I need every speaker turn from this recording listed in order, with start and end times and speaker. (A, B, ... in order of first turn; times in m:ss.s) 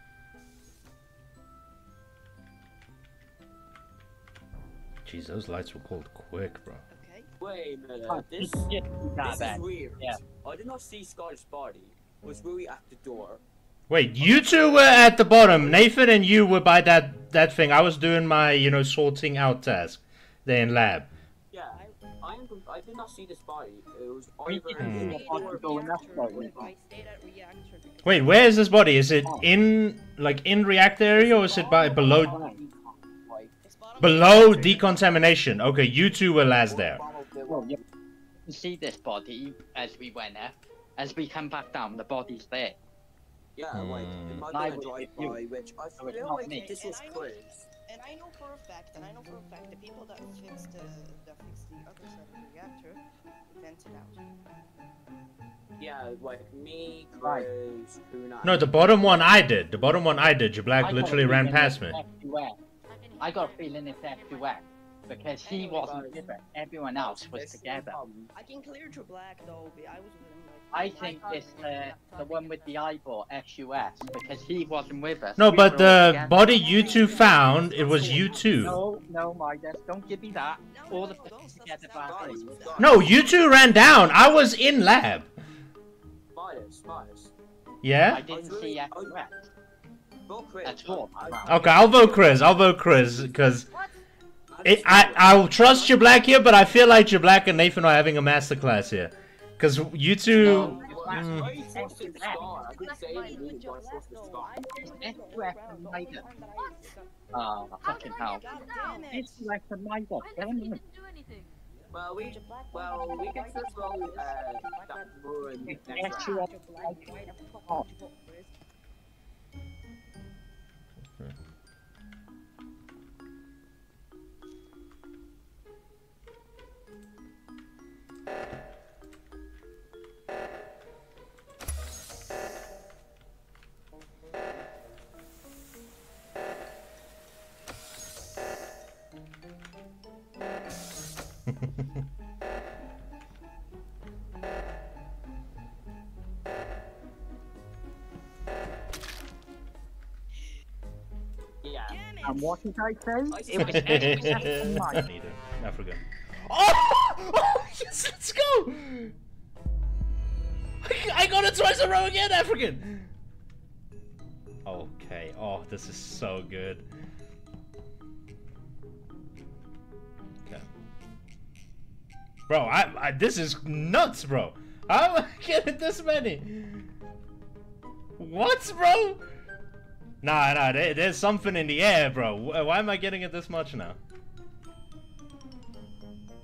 0:05.0-0:06.8 A
0:06.9-0:07.3 B
0:07.4-0:08.7 C
0:08.1-0:10.2 D
0:09.2-0:13.4 C
0:13.9-0:21.1 A
0:14.2-0:15.9 C
0:21.5-0:25.8 C
0:21.7-0:22.0 B
0:24.4-0:26.7 D
0:24.7-0:28.6 B
0:24.8-0:25.2 A
0:26.3-0:26.5 C
0:28.0-0:32.3 A
0:31.2-0:33.5 C
0:32.2-0:32.6 D
0:33.6-0:35.3 B
0:34.0-0:37.0 A
0:34.3-0:34.7 C
0:36.7-0:37.8 C
0:37.5-0:37.8 D
0:38.5-0:42.8 D
0:43.6-0:47.6 C
0:43.7-0:44.4 A
0:44.5-0:45.4 D
0:46.0-0:46.7 D
0:46.4-0:54.2 B
0:55.8-0:59.2 C
0:57.2-0:57.5 D
0:58.4-1:02.0 A
1:00.8-1:02.6 D
1:02.9-1:04.7 E
1:03.2-1:08.0 D
1:05.4-1:06.3 B
1:05.8-1:06.2 C
1:07.0-1:08.3 C
1:08.3-1:11.4 B
1:10.7-1:16.6 D
1:10.8-1:12.8 E
1:15.4-1:18.8 A
1:16.4-1:18.4 B
1:16.6-1:18.5 C
1:18.6-1:22.8 D
1:20.7-1:23.4 B
1:22.0-1:23.1 C
1:22.8-1:25.3 A
1:26.3-1:27.3 C
1:27.8-1:28.2 A
1:28.1-1:29.4 D
1:28.3-1:29.2 C
1:30.3-1:32.4 C
1:30.6-1:31.9 D
1:31.5-1:33.6 A
1:33.7-1:34.0 E
1:34.5-1:36.4 C
1:34.6-1:41.5 A
1:40.3-1:42.4 D
1:40.4-1:44.5 C
1:40.4-1:49.5 B
1:40.8-1:41.4 E
1:42.6-1:43.6 E
1:44.8-1:46.2 D
1:46.6-1:46.9 E
1:47.3-1:50.8 D
1:47.8-1:49.2 E
1:50.2-1:51.6 E
1:51.8-1:58.5 B
1:51.9-1:56.2 C
1:55.6-1:57.1 D
1:56.1-1:56.4 E
2:31.6-2:32.0 C
2:31.9-2:32.6 B
2:32.2-2:35.1 D
2:33.3-2:34.6 C
2:33.7-2:39.1 A
2:40.8-2:43.1 A
2:44.6-2:46.8 A
2:52.5-2:56.9 A
2:58.2-2:59.3 A
3:00.2-3:04.0 A